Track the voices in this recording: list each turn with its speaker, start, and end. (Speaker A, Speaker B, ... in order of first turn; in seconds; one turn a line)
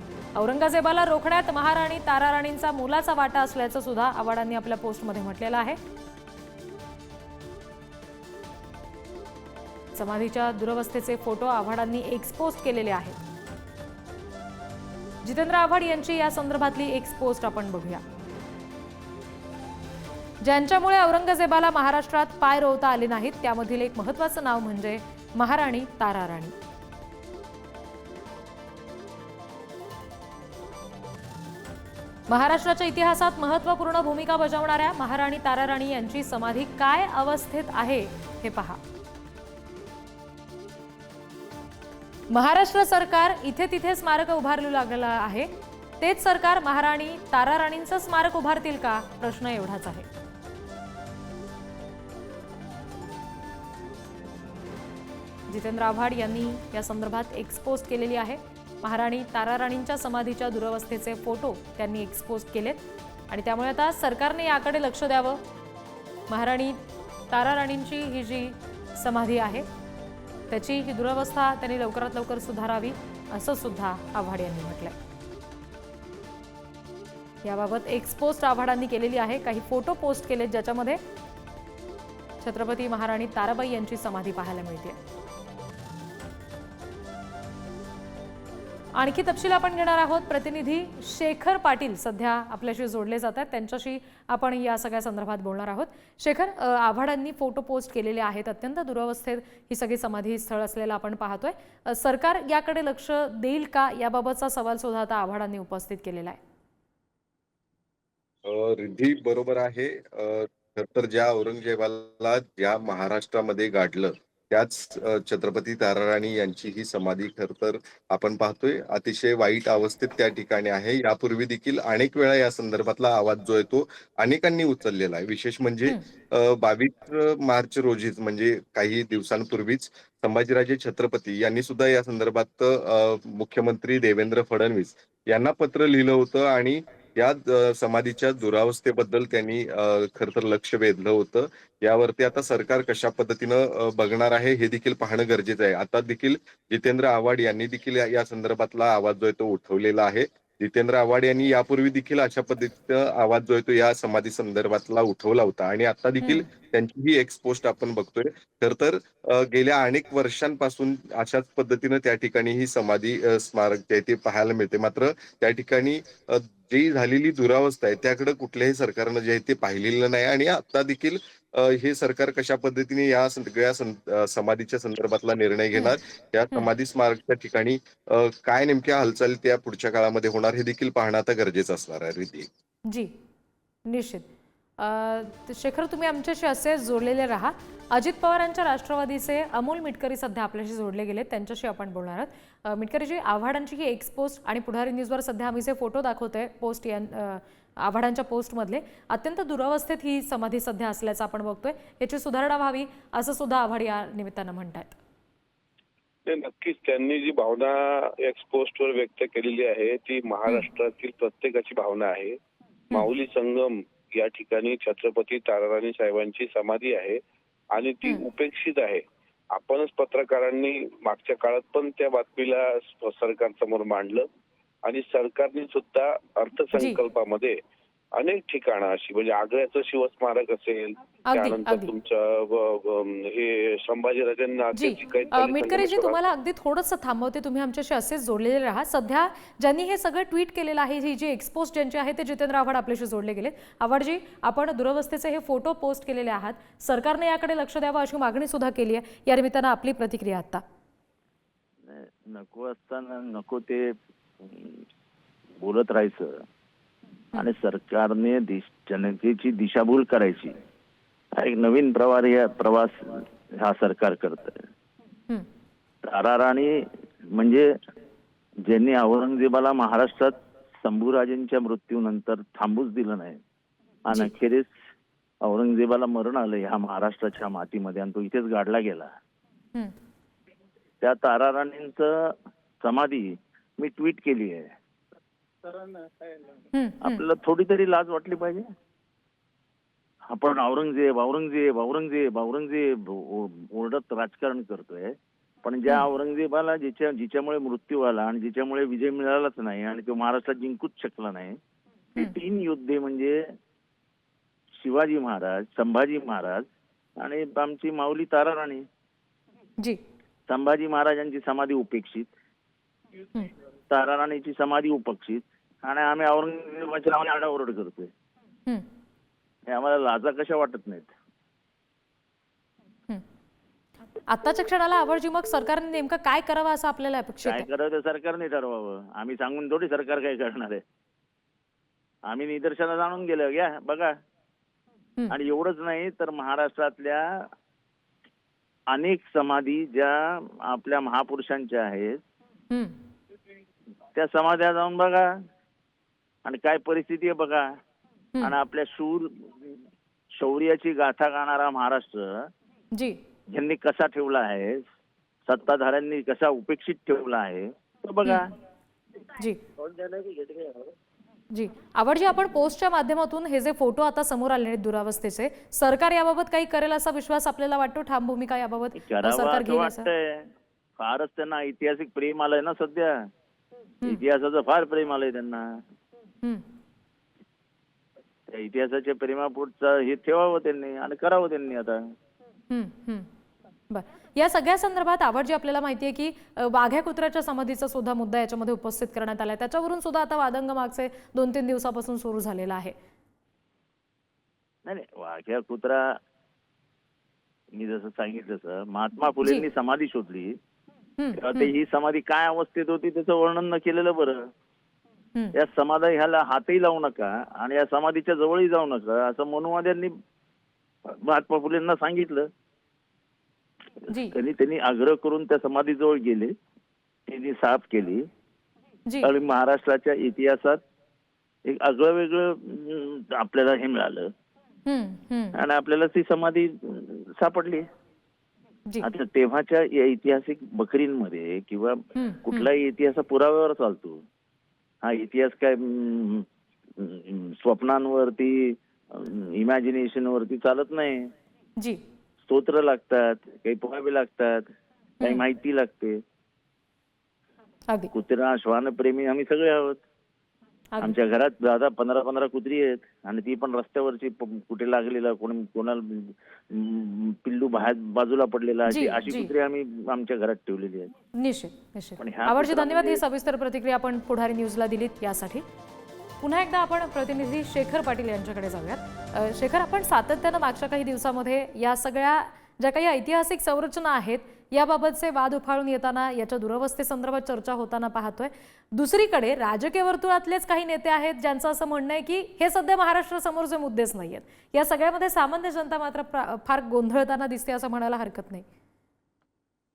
Speaker A: 0.3-5.8
Speaker A: 9.9-13.2
Speaker A: 15.2-18.0
Speaker A: 20.4-26.5
Speaker A: 32.3-38.8
Speaker A: 42.3-50.1
Speaker A: 55.5-65.4
Speaker A: 66.3-69.7
Speaker A: 70.5-74.9
Speaker A: 77.4-81.0
Speaker A: 82.4-85.0
Speaker A: 88.9-106.4
Speaker B: 108.4-182.5
Speaker A: 156.2-156.5
Speaker A: 183.8-184.3
Speaker A: 184.8-205.0
Speaker C: 206.3-212.3
Speaker C: 212.9-217.2
Speaker C: 217.7-219.0
Speaker C: 219.5-224.3
Speaker C: 224.8-227.6
Speaker C: 228.2-236.2
Speaker A: 231.2-231.9
Speaker A: 234.7-250.6
Speaker D: 251.9-254.8
Speaker D: 255.6-256.3
Speaker D: 257.3-260.6
Speaker D: 261.4-264.6
Speaker D: 266.0-267.7
Speaker D: 268.6-273.4
Speaker D: 274.1-274.7
Speaker D: 275.4-279.1
Speaker D: 281.0-284.7
Speaker D: 285.6-286.3
Speaker A: 286.7-287.2
Speaker D: 287.0-288.6
Speaker D: 290.3-301.6
Speaker D: 302.1-303.4
Speaker D: 304.8-306.6
Speaker D: 307.2-308.9
Speaker D: 310.5-312.3
Speaker D: 313.9-318.1
Speaker D: 319.7-321.1
Speaker A: 324.3-327.6
Speaker D: 327.4-330.8
Speaker D: 332.2-334.1
Speaker D: 335.3-337.5
Speaker D: 338.9-342.2
Speaker D: 344.1-345.3
Speaker D: 346.4-347.8
Speaker D: 348.4-349.8
Speaker D: 350.3-352.5
Speaker A: 352.9-353.2
Speaker D: 353.5-354.8
Speaker D: 355.4-358.5
Speaker A: 359.3-359.6
Speaker D: 359.8-360.9
Speaker A: 361.5-370.1
Speaker D: 368.9-373.3
Speaker D: 374.0-375.8
Speaker D: 378.5-382.0
Speaker A: 382.7-383.3
Speaker A: 383.9-392.9
Speaker D: 394.8-396.2
Speaker D: 397.7-400.6
Speaker A: 401.2-401.7
Speaker D: 401.3-404.5
Speaker D: 405.5-410.1
Speaker D: 411.1-412.5
Speaker D: 414.3-416.5
Speaker D: 417.3-418.3
Speaker D: 419.2-420.8
Speaker D: 421.6-424.3
Speaker A: 424.9-425.6
Speaker D: 425.6-427.9
Speaker D: 429.0-434.2
Speaker A: 432.1-432.7
Speaker D: 435.0-436.4
Speaker D: 437.0-441.3
Speaker D: 442.5-444.7
Speaker D: 445.2-446.2
Speaker D: 448.1-450.0
Speaker D: 451.0-461.1
Speaker A: 458.9-459.5
Speaker A: 461.3-465.6
Speaker D: 462.2-463.2
Speaker A: 466.4-488.6